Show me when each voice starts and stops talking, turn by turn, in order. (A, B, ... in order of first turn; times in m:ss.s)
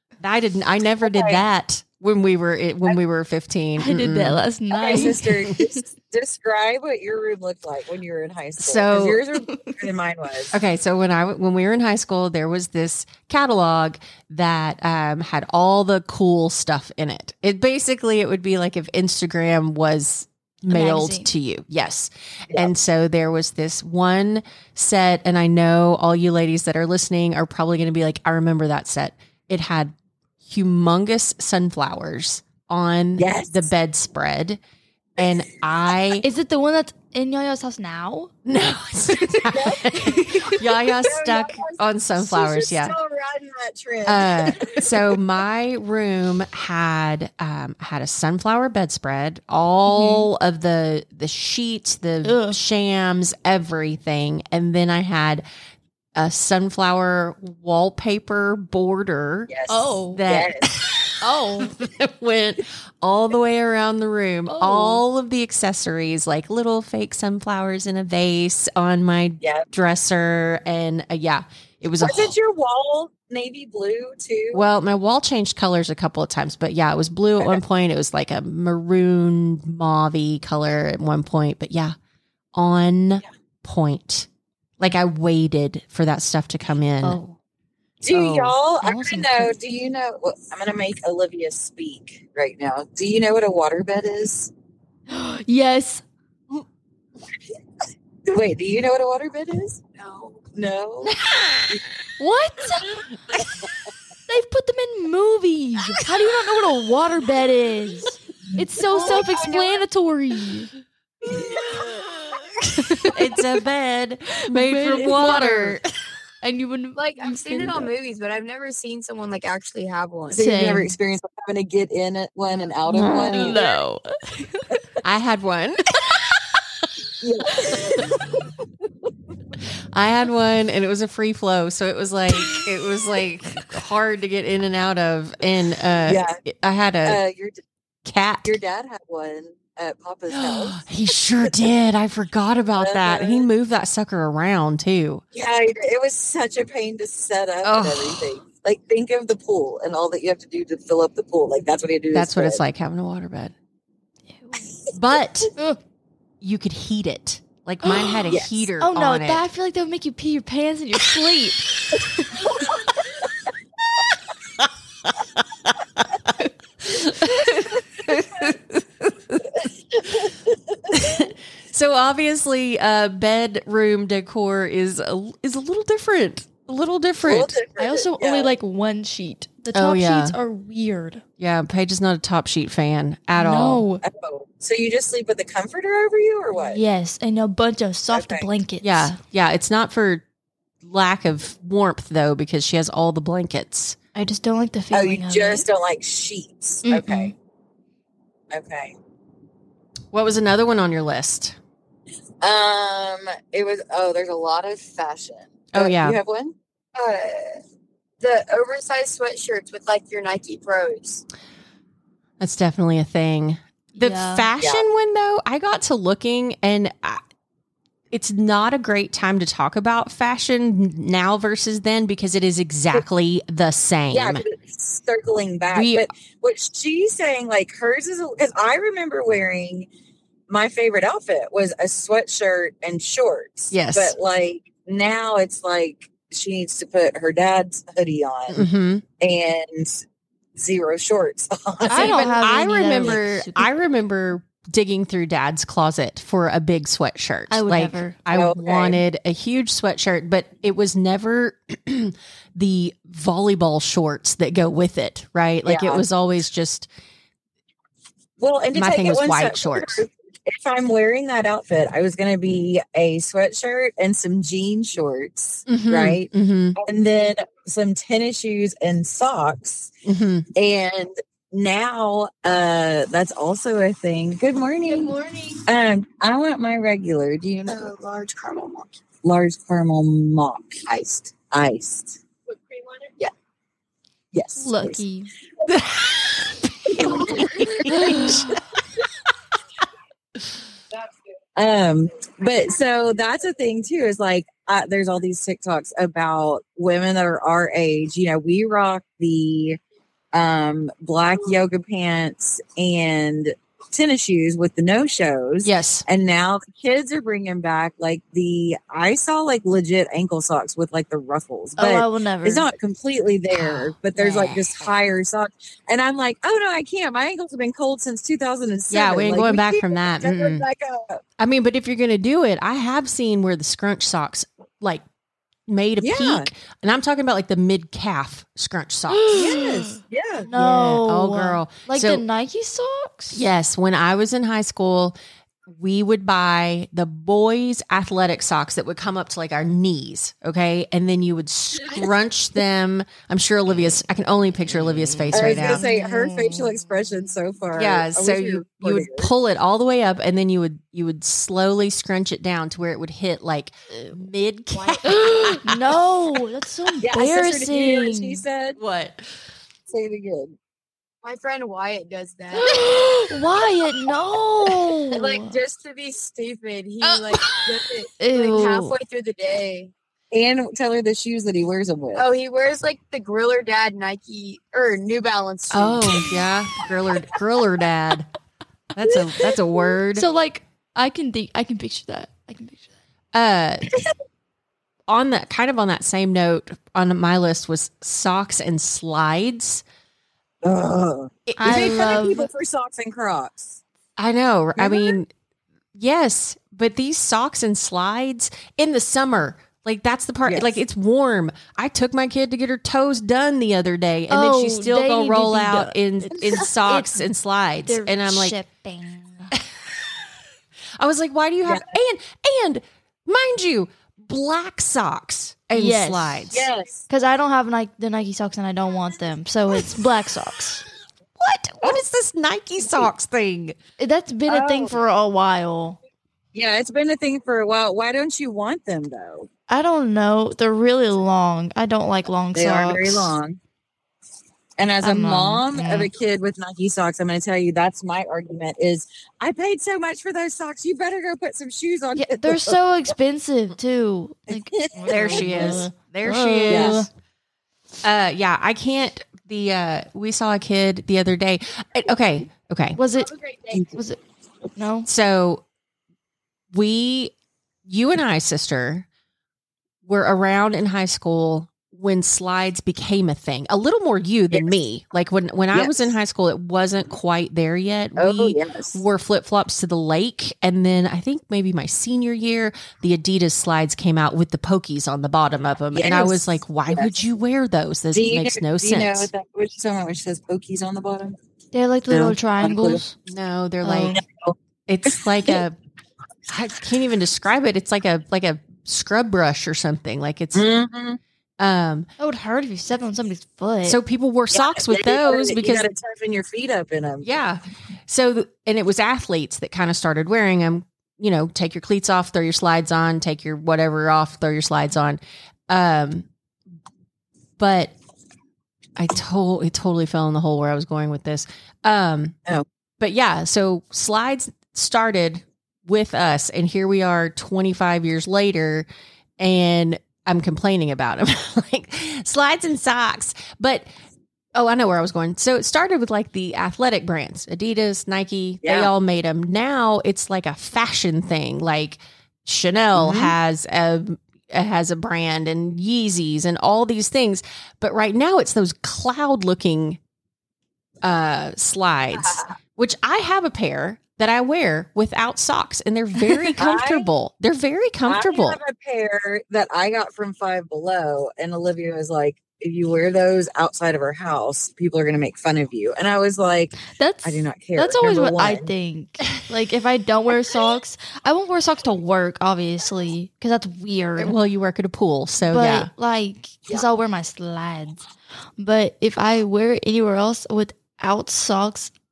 0:00.2-0:04.4 A
0:01.0-0:01.4 B
0:03.8-0:05.8 C
0:04.7-0:10.6 B
0:08.6-0:09.2 A
0:10.5-0:34.6 A
0:20.7-0:21.3 C
0:33.2-0:33.6 B
0:35.2-0:36.2 A
0:36.2-0:38.3 C
0:38.4-0:42.9 A
0:39.5-0:45.2 B
0:39.9-0:40.6 C
0:44.0-0:55.4 A
0:49.9-0:50.3 C
0:52.2-0:52.6 C
0:56.2-0:59.5 A
0:59.5-1:00.7 B
0:59.7-1:00.2 C
1:00.1-1:12.3 A
1:01.2-1:01.8 C
1:04.5-1:05.0 C
1:12.0-1:14.6 B
1:14.5-1:21.9 A
1:22.5-1:24.3 A
1:24.8-1:27.2 A
1:27.0-1:27.4 C
1:28.0-1:34.5 B
1:28.0-1:28.5 A
1:28.8-1:29.5 C
1:35.1-1:36.0 C
1:38.2-1:39.8 B
1:40.0-1:40.4 D
1:40.5-1:41.2 B
1:41.0-1:41.8 A
1:42.2-1:43.0 C
1:44.3-1:50.7 C
1:48.9-1:49.8 D
1:51.4-1:51.9 D
1:51.5-1:51.8 B
1:52.7-1:53.2 C
1:53.1-1:55.8 A
1:54.4-1:55.8 C
1:56.4-1:57.9 C
1:57.0-2:00.4 D
2:00.3-2:00.9 C
2:00.3-2:03.6 B
2:03.1-2:04.8 C
2:05.0-2:05.8 A
2:07.2-2:08.2 B
2:07.6-2:08.0 C
2:09.9-2:17.2 A
2:16.0-2:16.4 B
2:17.0-2:17.6 B
2:18.0-2:18.5 A
2:18.4-2:20.8 B
2:20.3-2:25.2 A
2:22.8-2:23.5 B
2:25.3-2:32.6 B
2:27.6-2:28.4 A
2:32.1-2:33.5 A
2:34.3-2:34.6 C
2:34.9-2:35.5 A
2:36.4-2:39.4 A
2:37.8-2:42.5 C
2:38.3-2:38.6 B
2:47.0-2:47.8 C
2:48.1-2:49.4 A
2:50.9-2:57.6 A
2:57.2-2:58.5 B
2:57.8-3:01.2 C
2:59.7-3:00.4 A
3:01.4-3:03.8 A
3:03.3-3:04.0 C
3:04.0-3:06.8 B
3:06.5-3:09.2 C
3:08.1-3:08.5 B
3:08.8-3:10.2 A
3:10.8-3:14.0 A
3:14.1-3:15.6 C
3:14.9-3:17.3 B
3:16.9-3:17.2 A
3:18.5-3:18.9 B
3:20.1-3:21.6 A
3:22.4-3:26.5 B
3:25.7-3:26.2 A
3:26.9-3:27.6 D
3:28.2-3:31.2 D
3:32.4-3:37.2 A
3:33.9-3:34.5 C
3:38.1-3:44.4 A
3:44.1-3:49.9 B
3:45.7-3:46.1 A
3:50.5-3:58.6 B
3:53.7-3:54.1 A
3:58.5-3:59.0 A
3:59.2-4:00.0 B
4:00.6-4:02.3 B
4:01.9-4:03.7 C
4:01.9-4:16.9 A
4:07.5-4:08.2 C
4:08.3-4:09.0 B
4:15.6-4:16.0 B
4:18.4-4:29.9 B
4:18.7-4:20.0 A
4:25.7-4:26.8 A
4:30.0-4:30.5 A
4:30.5-4:37.8 B
4:34.9-4:35.6 D
4:37.7-4:39.0 D
4:39.2-4:42.2 B
4:40.9-4:41.2 D
4:43.0-4:43.3 D
4:44.3-4:45.0 B
4:44.6-4:45.3 C
4:45.7-4:48.6 A
4:46.9-4:48.4 B
4:47.3-4:47.6 D
4:47.9-4:48.4 C
4:51.6-4:59.8 B
5:00.3-5:21.2 B
5:05.6-5:06.0 A
5:11.8-5:12.7 C
5:13.5-5:14.9 A
5:18.9-5:20.6 A
5:21.4-5:25.0 A
5:25.7-5:29.8 A
5:26.0-5:26.4 B
5:29.1-5:33.5 C
5:29.3-5:30.5 B
5:30.5-5:32.2 A
5:33.3-5:35.2 A
5:35.7-5:45.9 A
5:45.2-5:46.7 C
5:45.3-5:49.3 B
5:47.8-5:56.0 A
5:54.7-5:55.0 D
5:55.0-5:58.4 C
5:57.0-5:58.8 B
5:58.8-5:59.2 A
5:59.9-6:00.6 B
6:01.2-6:02.8 D
6:02.5-6:05.5 C
6:05.1-6:09.9 D
6:07.0-6:07.8 A
6:08.2-6:09.0 C
6:10.3-6:12.2 B
6:12.1-6:16.4 D
6:15.7-6:18.3 A
6:18.9-6:20.2 A
6:20.1-6:22.9 C
6:23.3-6:23.9 A
6:25.1-6:29.8 A
6:30.6-6:33.8 B
6:31.5-6:32.3 A
6:31.6-6:32.5 C
6:34.2-6:35.3 A
6:34.8-6:35.2 B
6:35.9-6:48.6 A
6:40.4-6:40.8 B
6:44.3-6:47.3 C
6:47.8-6:49.5 C
6:49.5-6:50.1 A
6:51.0-6:56.7 A
6:55.7-6:56.5 C
6:56.5-6:57.0 B
6:57.1-7:00.8 C
7:01.4-7:03.8 A
7:04.0-7:06.0 C
7:04.5-7:05.0 B
7:06.5-7:09.5 B
7:09.7-7:13.3 C
7:12.5-7:13.6 B
7:14.8-7:22.8 B
7:15.0-7:16.1 C
7:22.1-7:27.1 C
7:24.5-7:25.8 B
7:25.1-7:27.1 A
7:26.7-7:27.0 B
7:28.0-7:33.0 A
7:33.0-7:33.4 C
7:33.4-7:33.8 D
7:33.9-7:34.2 C
7:34.8-7:35.1 C
7:35.0-7:35.6 A
7:36.7-7:37.3 A
7:37.8-7:39.0 A
7:40.0-7:59.3 A
7:45.7-7:46.1 B
7:48.2-7:49.0 B
7:55.9-7:57.1 B
7:58.1-8:01.4 B
8:01.7-8:03.2 C
8:02.1-8:03.0 B
8:03.3-8:04.2 A
8:03.8-8:04.2 C
8:04.1-8:04.6 B
8:04.9-8:05.8 A
8:05.1-8:05.6 B
8:06.5-8:10.6 A
8:10.5-8:11.2 B
8:11.6-8:12.1 A
8:12.2-8:14.0 C
8:13.8-8:15.9 A
8:14.5-8:17.2 B
8:17.2-8:26.3 A
8:27.6-8:27.9 A
8:29.0-8:32.4 A
8:33.0-8:38.9 A
8:39.4-8:43.8 A
8:44.5-9:00.0 A
8:48.6-8:48.9 B
8:53.0-8:53.3 B
9:01.0-9:08.6 A
9:02.2-9:02.5 B
9:06.6-9:07.1 B
9:08.0-9:18.7 B
9:16.8-9:24.3 C
9:24.2-9:25.9 A
9:25.5-9:28.0 C
9:28.6-9:31.9 C